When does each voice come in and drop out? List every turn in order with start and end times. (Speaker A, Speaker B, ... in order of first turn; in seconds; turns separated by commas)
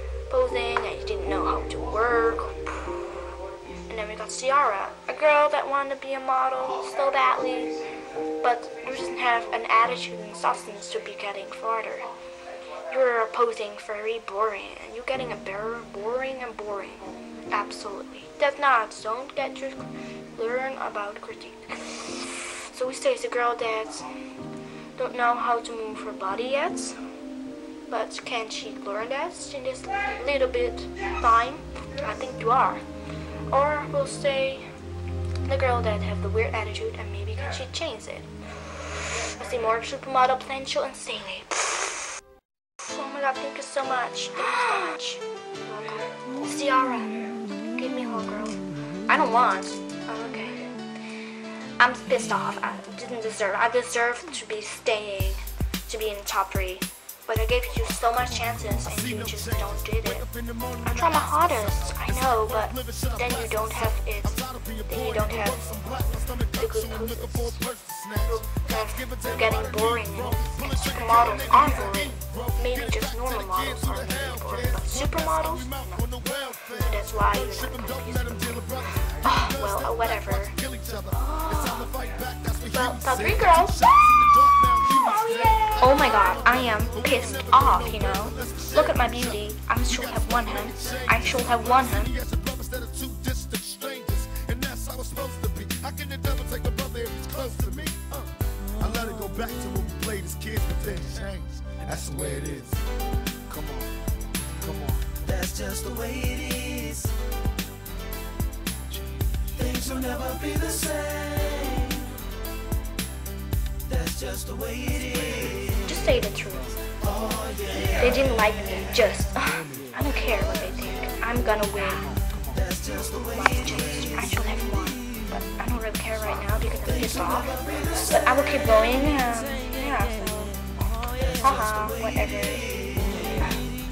Speaker A: 0.3-12.1, Speaker A: 12.9-24.2, Speaker A: 24.9-27.0, Speaker A: 27.9-32.8, Speaker A: 33.5-34.7, Speaker A: 35.4-42.2, Speaker A: 42.8-50.7, Speaker A: 51.8-92.2, Speaker B: 92.5-98.1, Speaker B: 98.8-102.7, Speaker C: 105.2-107.1, Speaker C: 109.5-112.1, Speaker C: 113.9-115.4, Speaker A: 115.1-116.8, Speaker C: 117.2-117.7, Speaker A: 117.8-122.2, Speaker A: 122.9-133.5